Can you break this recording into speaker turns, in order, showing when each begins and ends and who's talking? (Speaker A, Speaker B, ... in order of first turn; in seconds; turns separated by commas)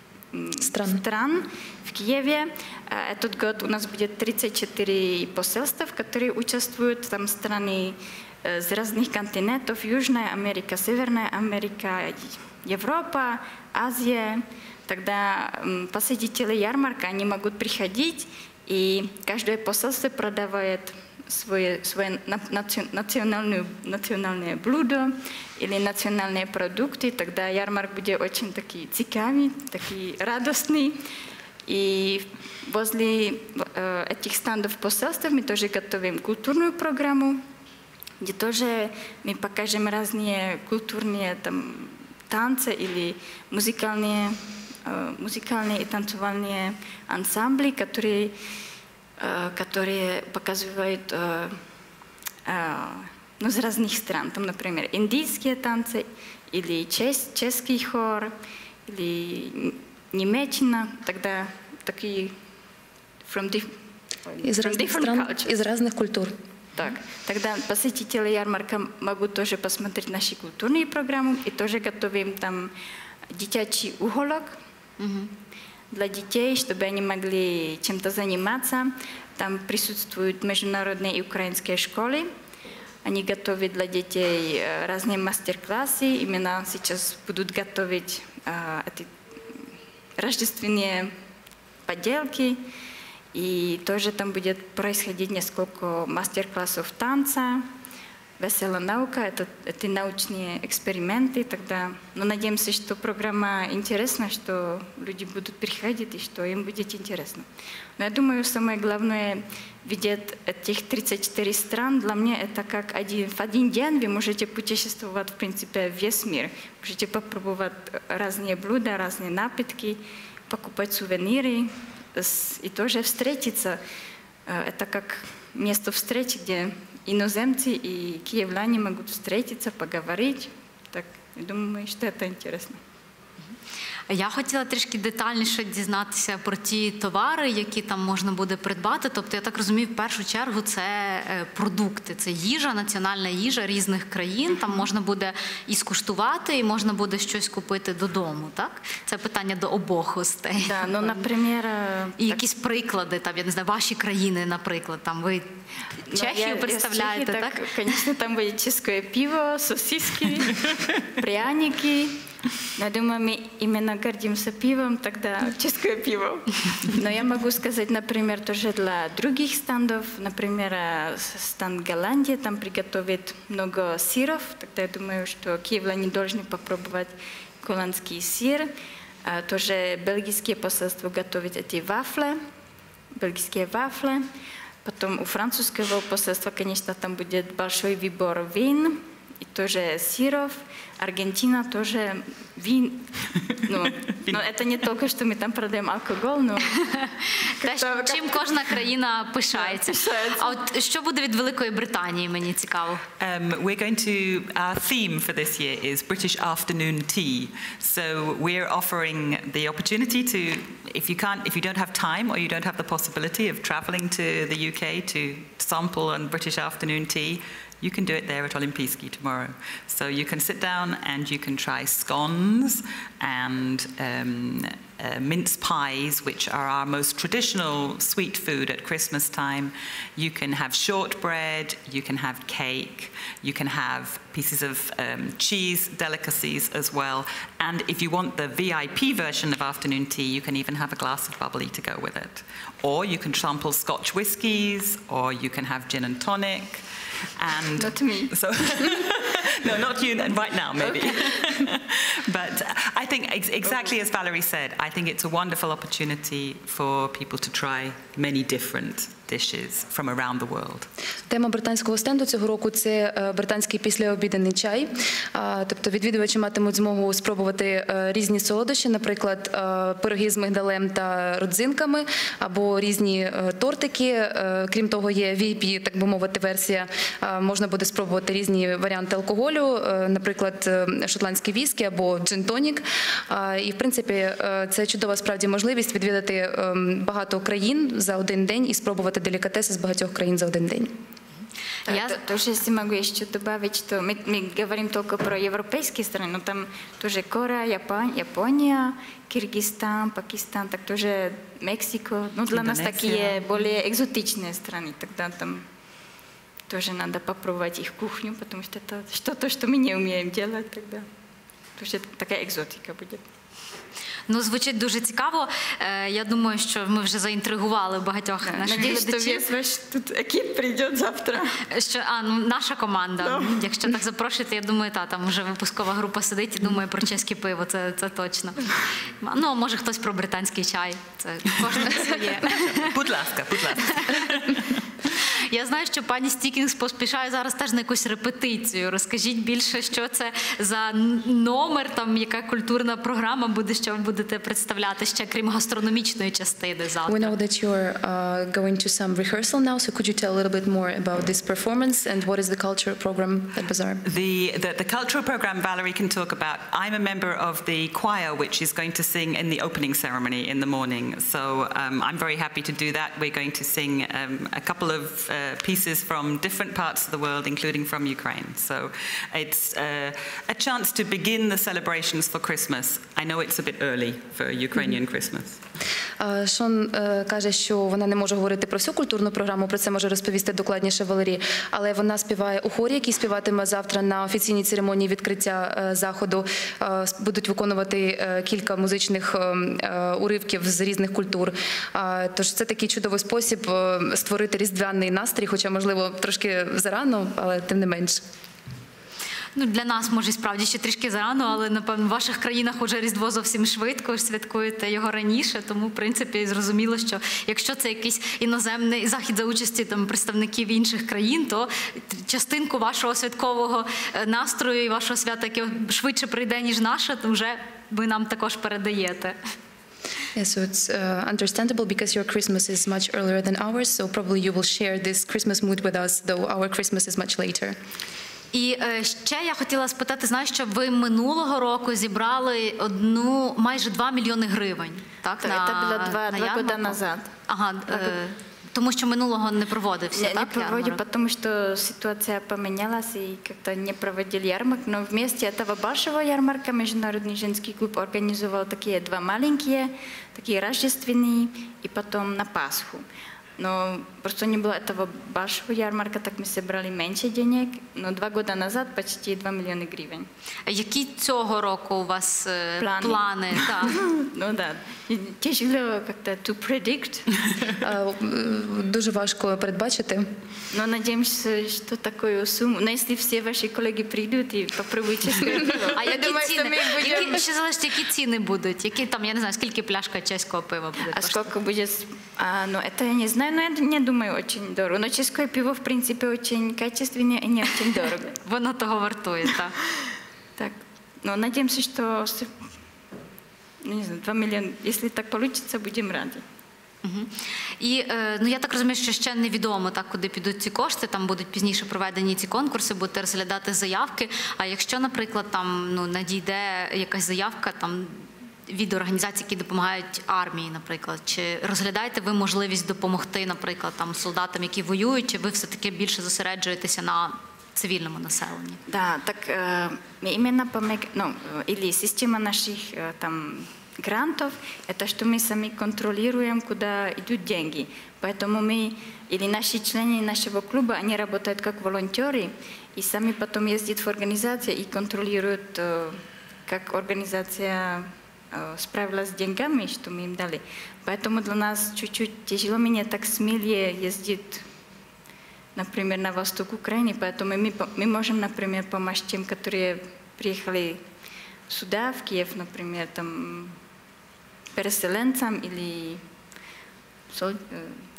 Speaker A: 0.3-31.0, Speaker B: 0.6-1.0, Speaker A: 31.7-37.4, Speaker A: 38.2-48.4, Speaker A: 49.2-51.6, Speaker A: 52.5-58.3, Speaker A: 58.9-62.3, Speaker A: 63.2-63.7, Speaker A: 64.3-65.5, Speaker B: 64.4-66.3, Speaker A: 66.8-72.7, Speaker A: 73.3-74.6, Speaker C: 75.0-75.3, Speaker A: 75.9-82.3, Speaker A: 83.0-89.1, Speaker A: 90.2-91.1, Speaker A: 91.9-92.6, Speaker A: 93.3-97.7, Speaker A: 98.4-107.5, Speaker A: 108.0-123.8, Speaker A: 124.5-132.8, Speaker C: 134.1-151.3, Speaker A: 150.6-152.4, Speaker C: 152.2-155.5, Speaker C: 156.1-157.7, Speaker A: 156.1-160.7, Speaker A: 161.2-162.2, Speaker A: 162.8-178.7, Speaker A: 179.3-182.4, Speaker A: 183.2-184.2, Speaker A: 184.8-193.1, Speaker A: 193.6-196.8, Speaker D: 194.1-194.4, Speaker C: 196.9-203.0, Speaker A: 197.6-198.6, Speaker A: 199.6-200.6, Speaker D: 203.2-246.8, Speaker D: 247.4-260.9, Speaker A: 247.8-248.3, Speaker B: 261.3-290.9, Speaker A: 291.9-305.6, Speaker C: 291.9-292.2, Speaker D: 302.5-303.5, Speaker A: 306.7-311.1, Speaker A: 311.8-313.2, Speaker C: 314.3-319.5, Speaker A: 318.4-321.5, Speaker C: 321.7-333.0, Speaker A: 323.2-323.5, Speaker D: 332.6-334.6, Speaker C: 333.9-347.3, Speaker B: 347.1-354.0, Speaker D: 354.1-375.6, Speaker B: 376.2-398.2, Speaker C: 399.6-419.4, Speaker B: 420.4-427.8, Speaker C: 428.5-441.0, Speaker A: 435.4-437.3, Speaker A: 437.9-438.1, Speaker A: 440.1-453.0, Speaker A: 453.6-460.3, Speaker C: 460.7-464.0, Speaker A: 462.8-463.2, Speaker A: 463.8-467.3, Speaker B: 467.8-470.2, Speaker A: 470.7-477.4, Speaker C: 475.9-481.5, Speaker A: 481.1-488.3, Speaker C: 488.4-489.8, Speaker A: 490.6-492.5, Speaker A: 493.8-496.4, Speaker C: 497.0-518.8, Speaker A: 518.9-544.6, Speaker A: 545.8-551.0, Speaker A: 551.7-553.8, Speaker A: 554.7-556.2, Speaker A: 557.3-558.0